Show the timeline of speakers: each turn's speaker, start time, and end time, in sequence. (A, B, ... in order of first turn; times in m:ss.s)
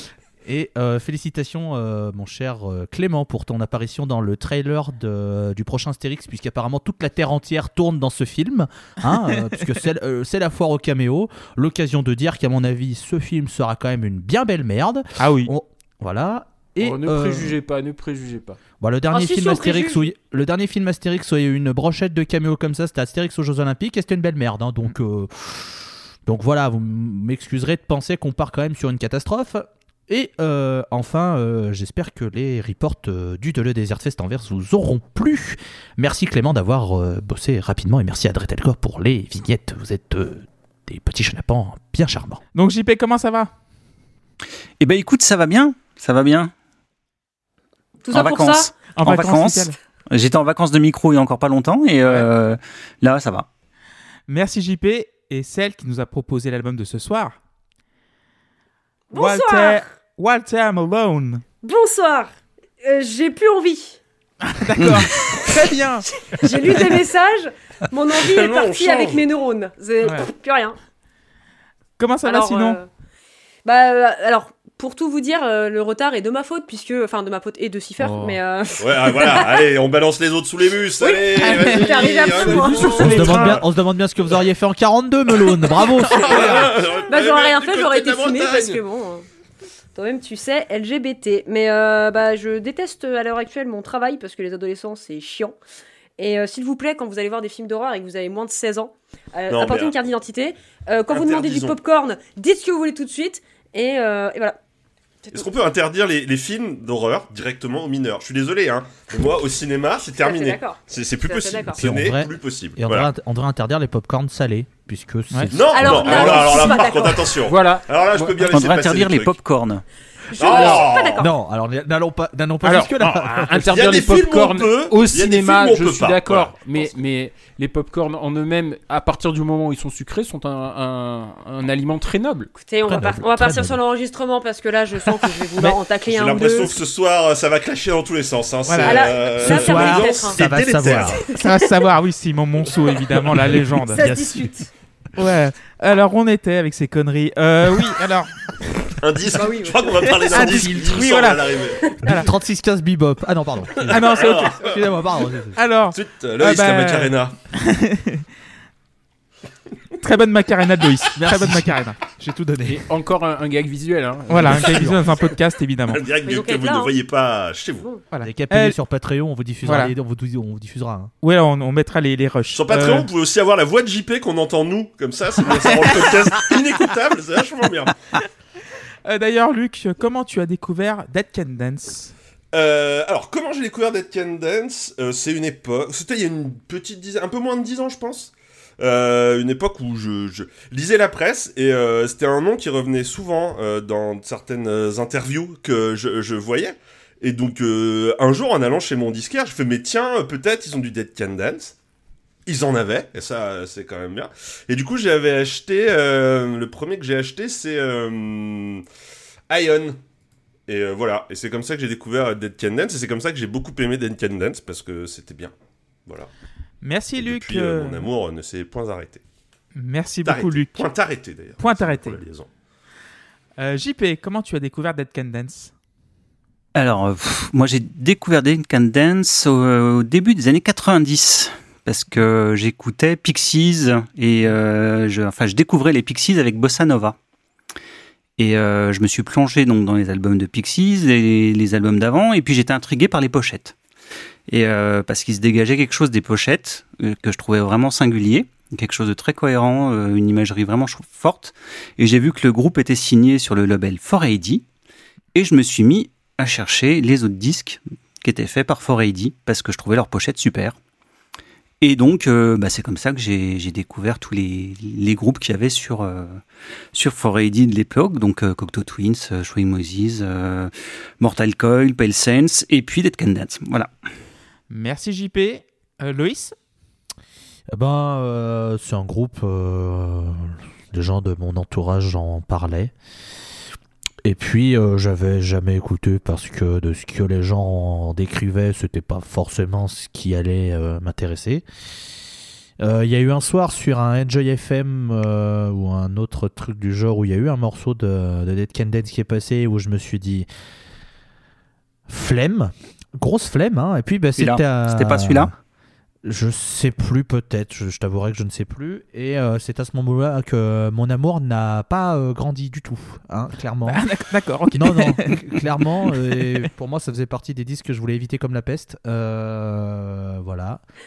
0:00.4-0:17.6 A
0:15.2-0:15.5 B
0:16.8-0:18.6 C
0:18.8-0:42.4 A
0:19.1-0:20.1 D
0:42.5-0:43.5 B
0:44.8-0:46.5 E
0:48.0-0:48.7 D
0:48.1-0:53.5 E
0:49.0-0:49.8 B
0:54.3-0:57.4 B
0:59.1-0:59.8 D
0:59.1-1:01.4 B
1:01.6-1:04.0 D
1:04.5-1:06.9 B
1:04.8-1:05.0 E
1:05.2-1:05.7 D
1:06.2-1:10.8 D
1:08.2-1:09.2 F
1:10.0-1:10.3 B
1:12.0-1:12.8 B
1:12.2-1:12.9 D
1:13.6-1:19.7 D
1:18.0-1:18.3 B
1:18.8-1:23.6 F
1:21.0-1:23.3 D
1:21.4-1:21.9 B
1:22.3-1:23.6 C
1:22.9-1:26.7 A
1:25.5-1:29.2 D
1:26.0-1:28.8 F
1:29.9-1:35.6 D
1:36.2-1:44.6 D
1:39.5-1:39.9 F
1:41.1-1:41.8 F
1:45.3-1:53.1 F
1:50.2-1:51.9 D
1:51.8-1:56.3 A
1:55.5-1:59.4 F
1:55.7-1:57.4 D
1:56.1-1:56.7 C
1:57.4-1:58.6 C
1:58.5-1:59.8 E
2:00.3-2:01.3 D
2:00.3-2:01.2 F
2:00.6-2:00.8 C
2:01.2-2:03.6 A
2:02.6-2:12.5 C
2:03.7-2:06.8 F
2:12.5-2:16.8 D
2:12.8-2:13.8 A
2:16.0-2:21.2 F
2:18.7-2:19.1 B
2:18.8-2:21.3 D
2:19.4-2:21.2 A
2:21.3-2:24.0 B
2:23.5-2:24.5 A
2:23.9-2:24.7 D
2:25.2-2:28.3 B
2:28.9-2:31.8 F
2:29.3-2:30.6 D
2:30.3-2:31.5 B
2:31.9-2:32.2 D
2:32.0-2:32.3 B
2:32.0-2:35.6 A
2:33.7-2:34.8 F
2:33.9-2:34.6 B
2:35.6-2:38.2 B
2:35.9-2:37.4 F
2:40.0-2:42.0 B
2:41.2-2:42.8 A
2:42.6-2:45.0 C
2:44.3-2:46.0 B
2:44.4-2:45.0 A
2:45.9-2:47.9 F
2:46.2-2:46.9 D
2:48.1-2:48.8 B
2:48.2-2:51.1 A
2:49.6-2:49.9 B
2:51.2-2:53.1 B
2:52.5-2:57.9 F
2:55.7-2:55.9 B
2:59.0-3:02.1 B
3:02.5-3:21.8 F
3:22.4-3:28.8 F
3:29.5-3:30.0 F
3:30.7-3:35.5 F
3:36.8-3:38.1 B
3:37.2-3:39.2 F
3:39.7-3:40.9 B
3:40.2-3:42.5 F
3:41.6-3:42.2 B
3:43.6-3:45.7 B
3:46.7-3:57.2 E
3:58.4-4:03.7 E
4:04.5-4:14.6 E
4:15.3-4:20.8 E
4:21.8-4:26.4 E
4:26.9-4:33.9 E
4:34.7-4:36.5 B
4:37.7-4:42.9 A
4:44.2-4:51.6 A
4:52.8-5:00.5 A
5:02.1-5:05.5 A
5:04.4-5:05.5 E
5:06.2-5:14.0 A
5:13.9-5:16.6 B
5:14.7-5:20.8 A